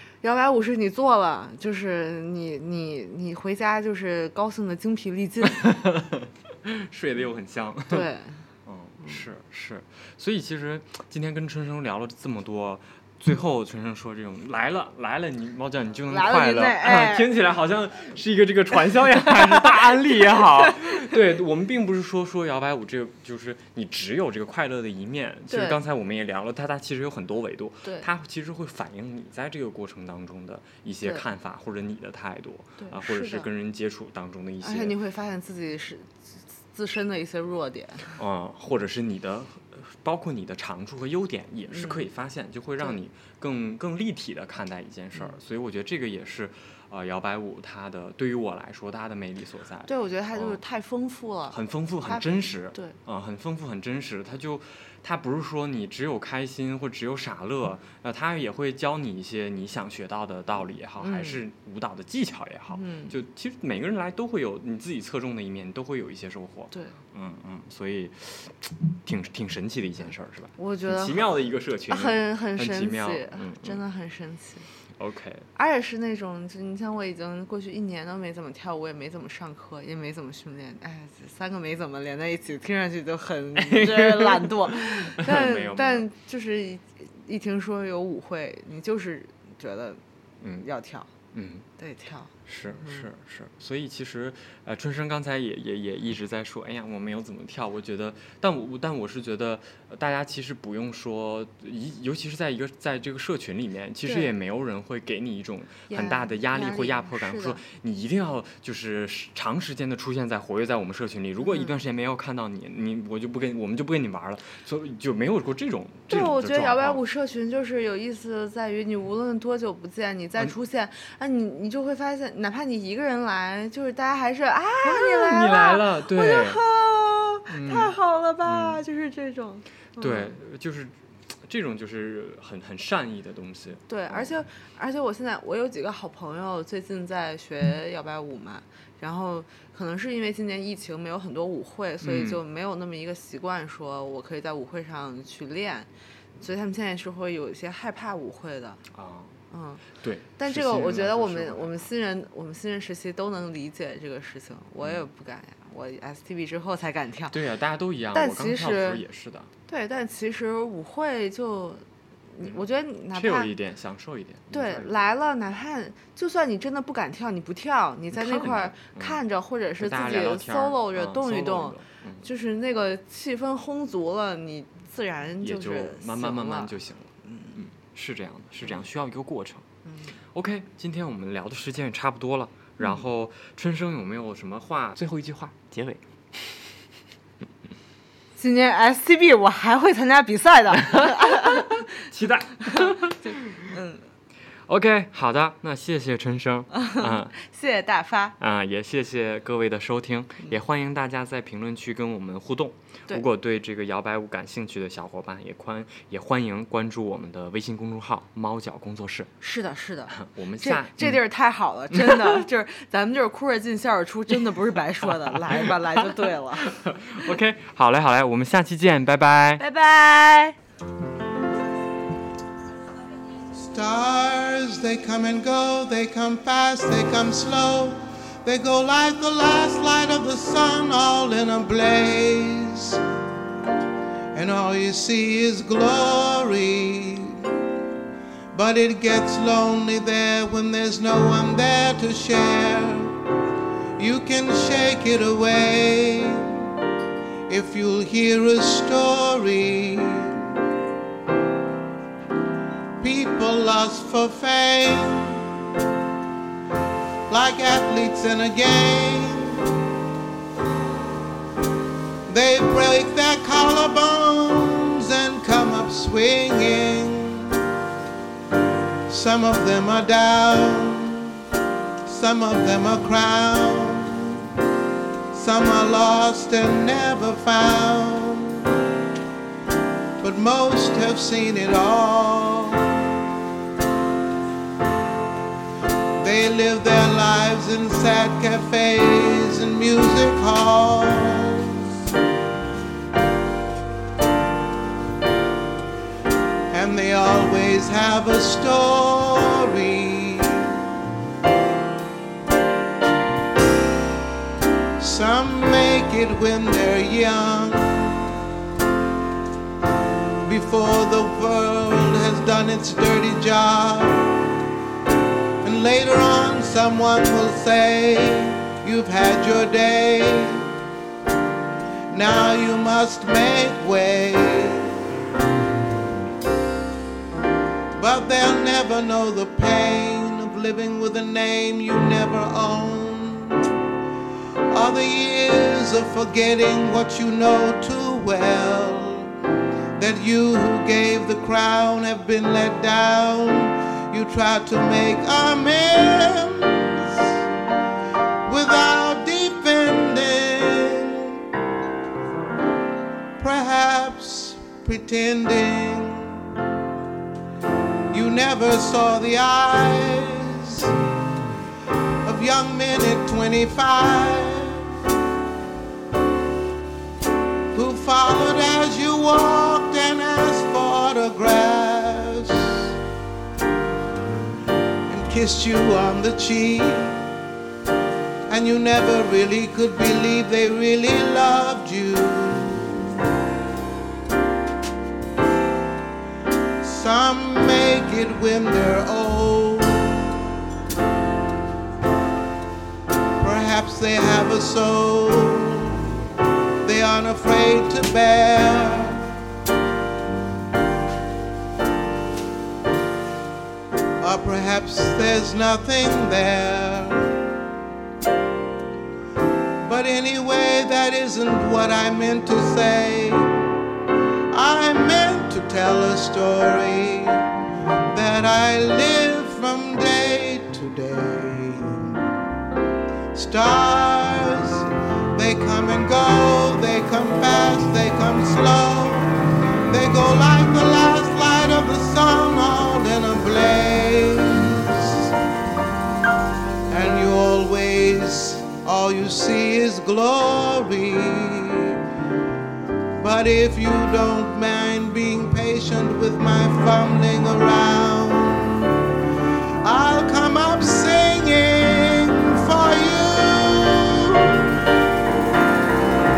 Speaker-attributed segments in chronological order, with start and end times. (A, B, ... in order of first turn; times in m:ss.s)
0:00.2-0:05.8 A
0:05.6-0:08.0 B
0:07.9-0:08.4 A
0:08.6-0:35.0 B
0:16.1-0:17.3 A
0:19.4-0:21.0 A
0:25.5-0:25.8 A
0:32.8-0:33.5 A
0:34.6-0:38.1 A
0:38.2-0:50.6 B
0:41.7-0:42.0 A
0:49.9-0:52.9 A
0:51.5-1:13.8 B
1:01.0-1:01.4 A
1:02.7-1:03.2 A
1:10.6-1:11.3 A
1:11.9-1:14.7 A
1:15.0-1:15.5 B
1:15.6-1:30.0 A
1:23.6-1:26.0 B
1:30.4-1:30.7 B
1:30.6-1:31.1 A
1:31.3-1:31.6 B
1:31.8-1:33.0 A
1:32.4-1:57.0 B
1:45.9-1:47.6 A
1:51.4-1:51.7 A
1:56.1-2:10.3 A
2:04.8-2:06.6 B
2:07.5-2:07.9 B
2:08.4-2:08.8 B
2:10.0-2:14.3 B
2:13.9-2:25.9 A
2:22.0-2:22.4 B
2:26.4-2:28.8 A
2:28.9-2:29.4 B
2:29.5-2:29.8 A
2:30.0-2:31.9 B
2:30.4-2:37.4 A
2:37.3-2:39.5 B
2:38.1-2:39.0 A
2:39.7-2:41.8 A
2:42.3-2:43.5 A
2:43.1-2:45.0 B
2:44.5-2:57.6 A
2:48.1-2:49.2 B
2:49.8-2:52.2 B
2:55.4-2:59.6 B
2:59.8-3:00.2 A
3:00.3-3:06.6 B
3:08.4-3:11.9 A
3:10.8-3:13.7 B
3:12.6-3:14.0 A
3:14.7-3:17.3 B
3:16.7-3:18.4 A
3:18.4-3:29.3 B
3:29.4-3:36.8 A
3:30.1-3:31.2 B
3:31.9-3:32.4 B
3:35.3-3:39.6 B
3:39.6-3:40.6 A
3:43.6-3:53.0 C
3:54.3-3:57.5 C
3:58.5-4:03.1 C
4:04.0-4:06.7 C
4:07.5-4:10.5 C
4:13.0-4:15.4 C
4:17.3-4:19.6 C
4:22.3-4:27.6 C
4:29.1-4:31.4 C
4:32.0-4:34.4 C
4:35.3-4:38.7 C
4:40.2-4:43.0 C
4:46.2-4:51.8 C
4:56.7-5:00.8 C
5:05.0-5:08.3 C
5:10.4-5:14.3 C
5:15.6-5:20.8 C
5:22.1-5:24.9 C
5:28.0-5:33.7 C
5:34.7-5:39.3 C
5:40.0-5:47.3 C
5:48.5-5:51.4 C
5:53.4-5:56.4 C
5:58.1-6:01.0 C
6:02.2-6:04.9 C
6:07.7-6:12.9 C
6:15.1-6:17.2 C
6:18.5-6:23.2 C
6:26.8-6:30.2 C
6:33.4-6:36.1 C
6:36.8-6:39.3 C
6:44.2-6:47.5 C
6:49.8-6:53.6 C
6:54.5-6:57.5 C
6:58.1-7:02.2 C
7:03.3-7:15.3 C
7:16.9-7:22.0 C
7:23.2-7:29.0 C
7:29.8-7:34.7 C